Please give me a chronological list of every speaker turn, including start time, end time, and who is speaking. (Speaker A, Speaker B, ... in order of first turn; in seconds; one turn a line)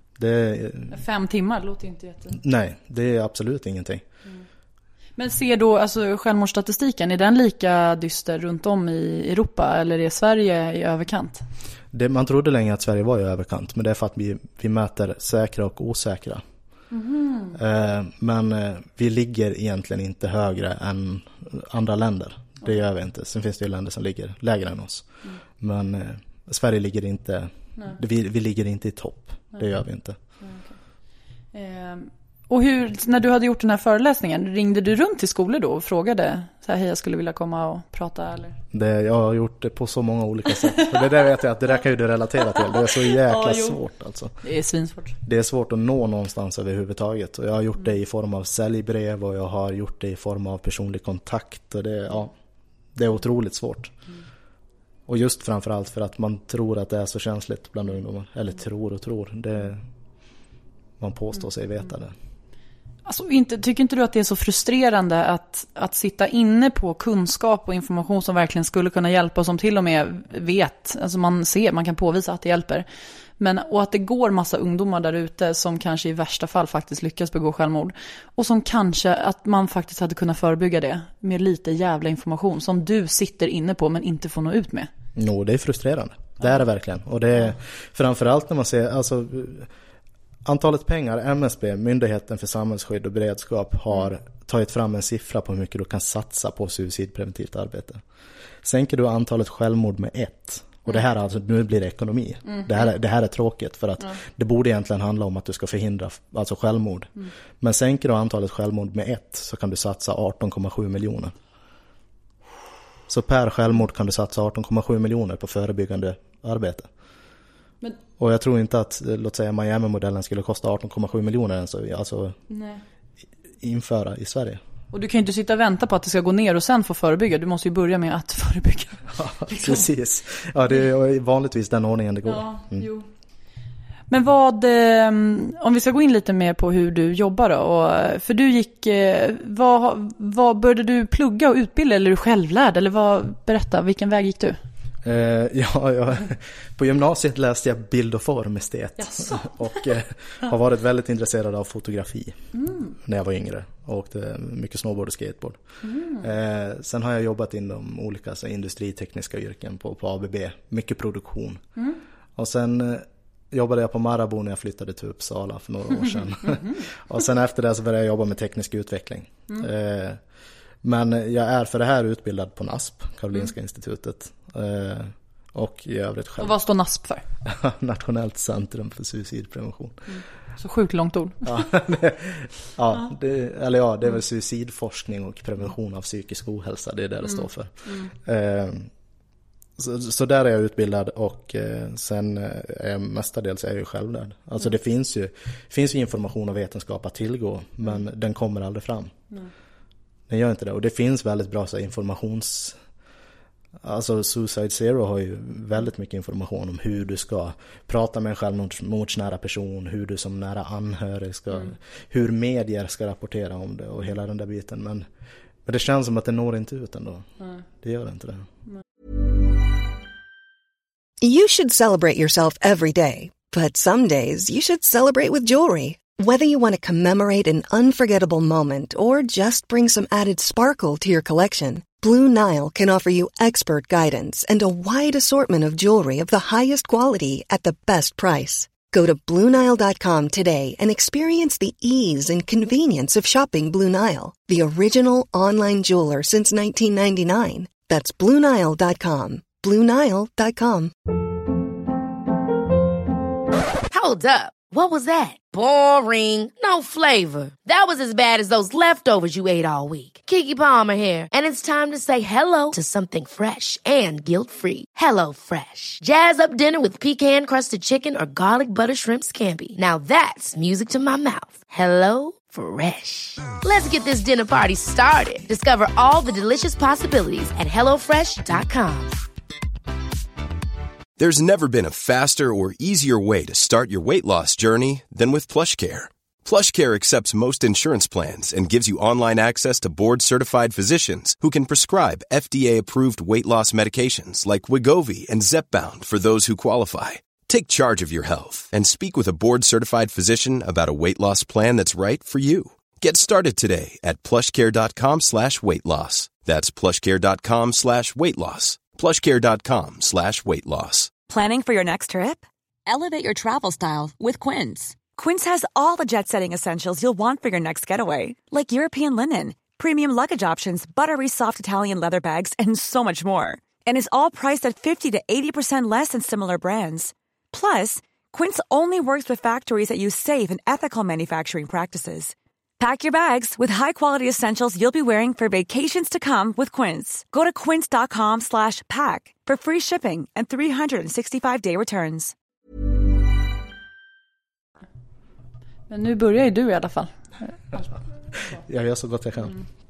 Speaker A: 0.2-1.0
Speaker B: 0.9-2.4
Speaker A: 2.3-4.0
Speaker B: 5.2-11.4
Speaker A: 11.9-16.4
Speaker B: 16.9-17.6
Speaker A: 17.5-25.0
Speaker A: 25.6-30.2
Speaker B: 30.4-30.7
Speaker B: 31.5-38.6
Speaker A: 38.7-44.4
Speaker B: 42.5-43.8
Speaker B: 44.4-45.1
Speaker A: 45.2-52.3
Speaker A: 52.9-53.9
Speaker A: 55.1-59.8
Speaker A: 61.0-62.1
Speaker B: 63.0-72.8
Speaker B: 73.4-84.9
Speaker A: 85.2-89.7
Speaker A: 90.4-98.0
Speaker A: 98.6-111.3
Speaker B: 102.4-102.7
Speaker A: 113.1-116.9
Speaker A: 118.2-122.4
Speaker B: 122.5-122.8
Speaker A: 123.6-124.6
Speaker B: 124.9-129.9
Speaker A: 129.1-132.9
Speaker B: 132.2-133.1
Speaker B: 134.1-144.6
Speaker A: 145.0-152.4
Speaker B: 149.0-149.5
Speaker B: 152.5-152.9
Speaker A: 153.0-155.6
Speaker B: 155.8-156.2
Speaker A: 156.2-161.6
Speaker A: 162.3-170.2
Speaker A: 170.8-176.6
Speaker B: 176.4-177.2
Speaker A: 177.4-180.1
Speaker B: 180.1-181.7
Speaker A: 181.4-188.9
Speaker B: 187.3-188.1
Speaker A: 189.8-199.1
Speaker A: 200.3-202.8
Speaker A: 203.8-215.1
Speaker A: 215.6-218.5
Speaker C: 221.2-250.9
Speaker D: 253.9-279.1
Speaker E: 281.2-311.1
Speaker F: 311.3-342.3
Speaker B: 345.9-347.9
Speaker A: 348.4-349.6